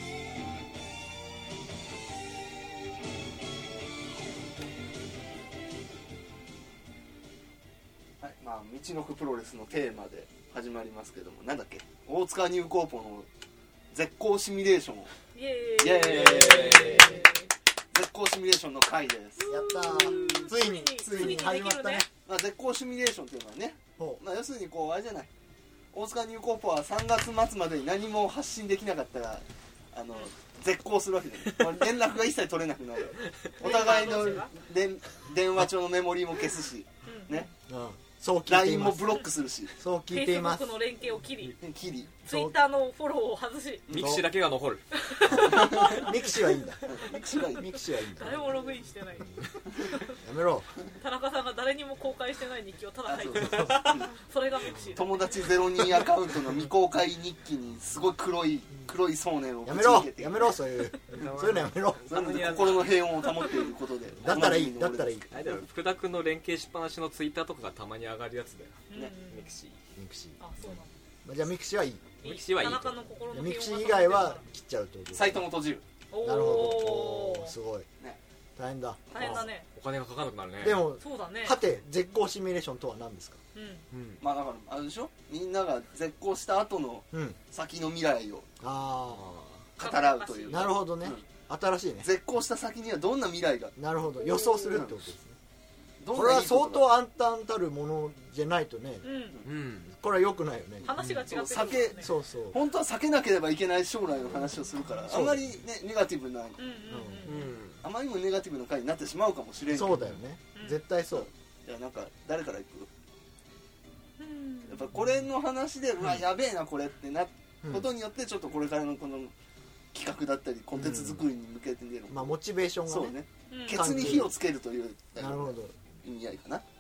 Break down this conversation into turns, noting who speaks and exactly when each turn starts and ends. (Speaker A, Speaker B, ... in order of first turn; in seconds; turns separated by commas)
Speaker A: 8.2-13.3, Speaker A: 13.9-15.1, Speaker B: 15.3-17.5, Speaker A: 15.8-17.3, Speaker C: 16.1-17.2, Speaker A: 17.9-20.5, Speaker B: 19.4-22.1, Speaker D: 19.4-22.1, Speaker A: 21.0-21.5, Speaker A: 22.2-25.3, Speaker A: 25.9-37.5, Speaker B: 33.6-34.5, Speaker B: 37.0-37.5, Speaker D: 37.7-39.2, Speaker A: 38.5-39.7, Speaker D: 39.8-40.7, Speaker B: 40.1-41.6, Speaker A: 41.6-42.2, Speaker B: 42.2-43.9, Speaker D: 42.3-42.6, Speaker A: 43.9-44.2, Speaker C: 43.9-44.8, Speaker D: 44.0-44.2, Speaker B: 44.9-46.3, Speaker D: 45.2-46.9, Speaker A: 45.5-46.1, Speaker A: 46.9-47.7, Speaker B: 47.0-47.4, Speaker D: 47.4-48.6, Speaker B: 48.2-50.2, Speaker D: 50.2-50.7, Speaker B: 51.0-55.6, Speaker A: 53.1-54.1, Speaker D: 53.4-53.8, Speaker A: 54.9-60.6, Speaker D: 59.6-62.1, Speaker C: 61.1-63.4, Speaker A: 62.1-65.2, Speaker D: 64.2-65.3, Speaker C: 65.3-69.8, Speaker B: 68.9-69.5, Speaker D: 70.0-70.4, Speaker B: 70.4-70.9, Speaker D: 71.2-72.0, Speaker B: 72.2-74.4, Speaker C: 72.2-73.0, Speaker D: 73.3-75.5, Speaker A: 75.1-75.8, Speaker B: 76.1-77.5, Speaker D: 76.2-77.9, Speaker D: 78.6-79.5, Speaker B: 79.1-79.7, Speaker C: 79.2-80.9, Speaker D: 80.6-83.4, Speaker B: 81.0-81.6, Speaker B: 83.5-83.9, Speaker C: 83.9-84.2, Speaker A: 84.2-88.5, Speaker D: 87.1-87.4, Speaker D: 88.6-89.3, Speaker C: 89.1-89.6, Speaker A: 89.8-91.3, Speaker B: 89.8-90.7, Speaker D: 90.5-92.1, Speaker A: 92.0-93.8, Speaker D: 93.8-95.4, Speaker B: 94.2-94.8, Speaker A: 94.7-95.0, Speaker A: 96.0-97.0, Speaker D: 96.1-99.1, Speaker B: 99.0-99.4, Speaker C: 99.4-99.9, Speaker D: 99.9-101.0, Speaker B: 100.8-102.1, Speaker C: 101.0-101.2, Speaker A: 101.3-106.6, Speaker D: 102.0-102.6, Speaker D: 105.1-105.5, Speaker B: 106.6-107.5, Speaker D: 106.9-107.4, Speaker C: 107.2-107.8, Speaker A: 107.8-110.1, Speaker D: 109.7-111.3, Speaker C: 109.9-110.2, Speaker B: 110.5-110.8, Speaker A: 111.1-112.9, Speaker B: 114.2-114.8, Speaker A: 114.7-119.3, Speaker D: 117.6-117.9, Speaker A: 119.9-126.6, Speaker D: 120.7-121.2, Speaker D: 122.1-123.2, Speaker B: 123.5-124.0, Speaker D: 123.7-124.4, Speaker D: 125.2-125.8